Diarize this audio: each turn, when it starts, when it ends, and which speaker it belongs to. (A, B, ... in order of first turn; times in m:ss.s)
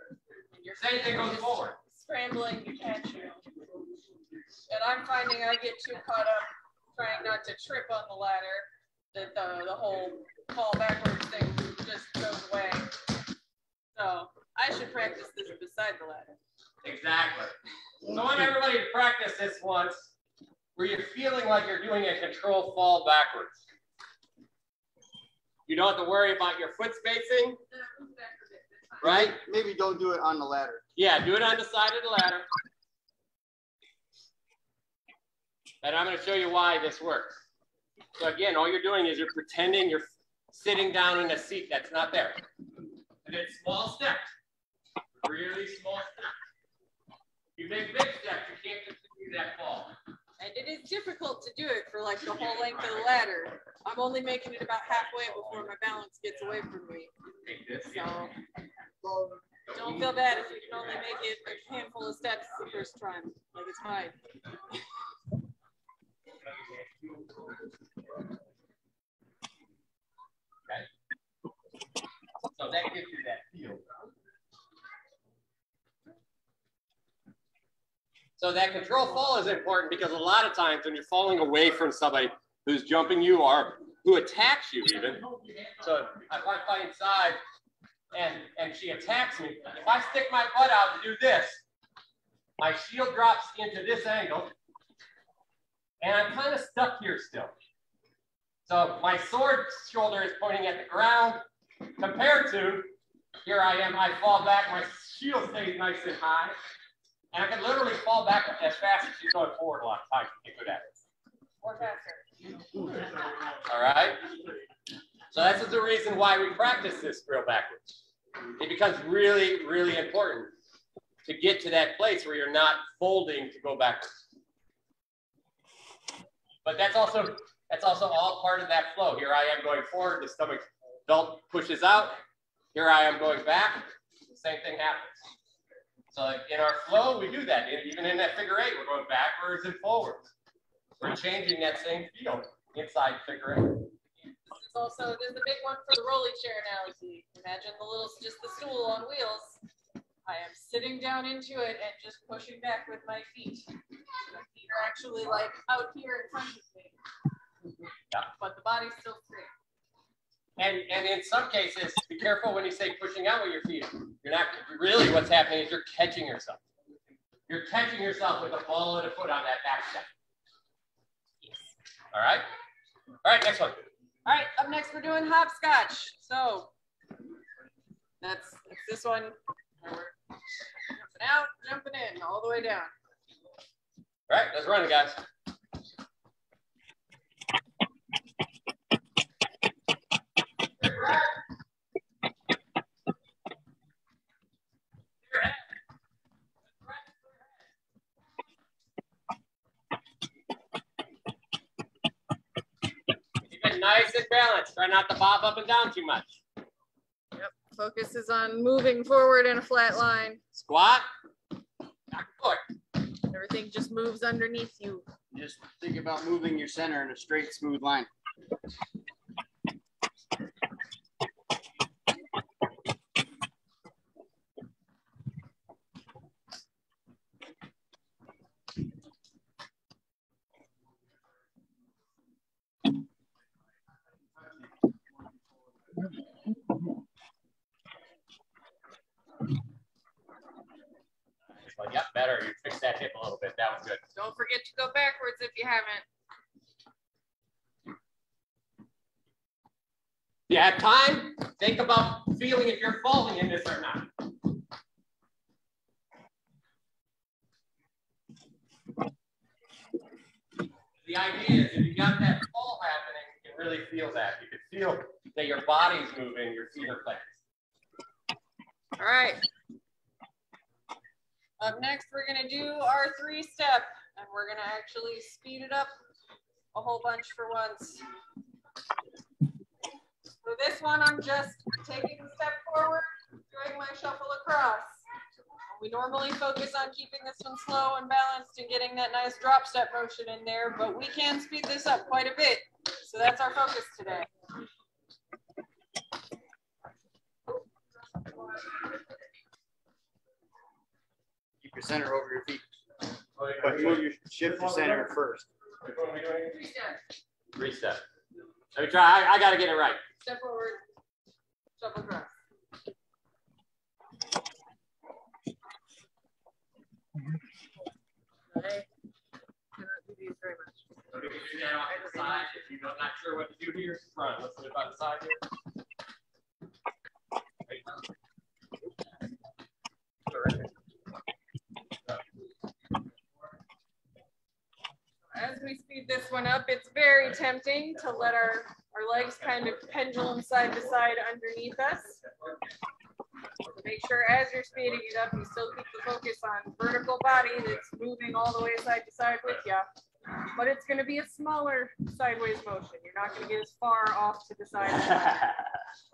0:00.5-0:03.4 A
0:00.8-0:01.8 B
0:04.7-0:12.9 A
0:14.0-0:16.4 A
0:16.8-0:17.5 B
0:18.1-0:20.1 B
0:20.8-0:23.6 B
0:25.7-0:27.6 B
0:27.7-0:29.0 A
0:29.0-0:29.4 B
0:29.0-0:30.8 C
0:31.0-0:32.5 B
0:35.8-0:37.4 B
0:38.2-0:42.4 B
0:43.2-0:44.3 B
0:45.2-0:46.3 B
0:47.6-0:49.9 B
0:50.4-0:57.1 A
0:57.4-0:58.1 B
0:57.9-0:58.3 A
0:59.7-1:04.2 A
1:12.4-1:13.8 B
1:18.4-1:25.2 B
1:25.8-1:27.4 B
1:28.1-1:31.6 B
1:32.6-1:34.5 B
1:36.0-1:37.5 B
1:38.7-1:41.4 B
1:42.0-1:42.9 B
1:43.4-1:46.6 B
1:47.3-1:51.0 B
1:51.6-1:52.2 A
1:53.7-1:54.2 B
1:55.3-1:57.9 B
1:58.6-2:00.5 B
2:01.2-2:04.2 B
2:06.6-2:12.2 B
2:12.8-2:15.2 B
2:16.1-2:20.3 B
2:21.0-2:23.9 B
2:24.5-2:29.6 A
2:30.3-2:33.7 A
2:34.3-2:37.0 A
2:38.4-2:39.5 A
2:40.6-2:46.6 B
2:47.5-2:50.1 B
2:52.1-2:52.5 B
2:53.2-2:53.8 B
2:54.3-2:56.7 A
2:58.2-3:00.1 A
3:00.9-3:02.9 A
3:04.3-3:05.2 B
3:10.8-3:11.2 B
3:15.3-3:15.6 B
3:23.5-3:26.4 B
3:27.4-3:30.4 A
3:30.5-3:31.1 B
3:32.1-3:32.6 B
3:33.3-3:35.0 A
3:35.3-3:38.1 C
4:01.7-4:04.0 B
4:04.2-4:06.1 A
4:10.5-4:14.1 B
4:21.0-4:27.4 B
4:29.0-4:29.4 A
4:31.6-4:35.9 A
4:36.7-4:38.0 A
4:40.4-4:45.0 A
4:45.7-4:54.3 A
5:01.6-5:02.6 C
5:03.4-5:05.1 B
5:03.6-5:05.5 C
5:05.8-5:06.6 B
5:06.5-5:07.0 A
5:07.6-5:08.0 B
5:08.8-5:10.0 B
5:10.2-5:10.8 A
5:11.8-5:12.3 A
5:18.5-5:18.9 A
5:19.8-5:20.8 A
5:21.1-5:25.4 B
5:21.9-5:22.5 A
5:30.3-5:30.7 B
5:35.3-5:42.2 A
5:43.7-5:49.9 A
5:50.4-5:55.5 A
5:54.9-5:55.6 B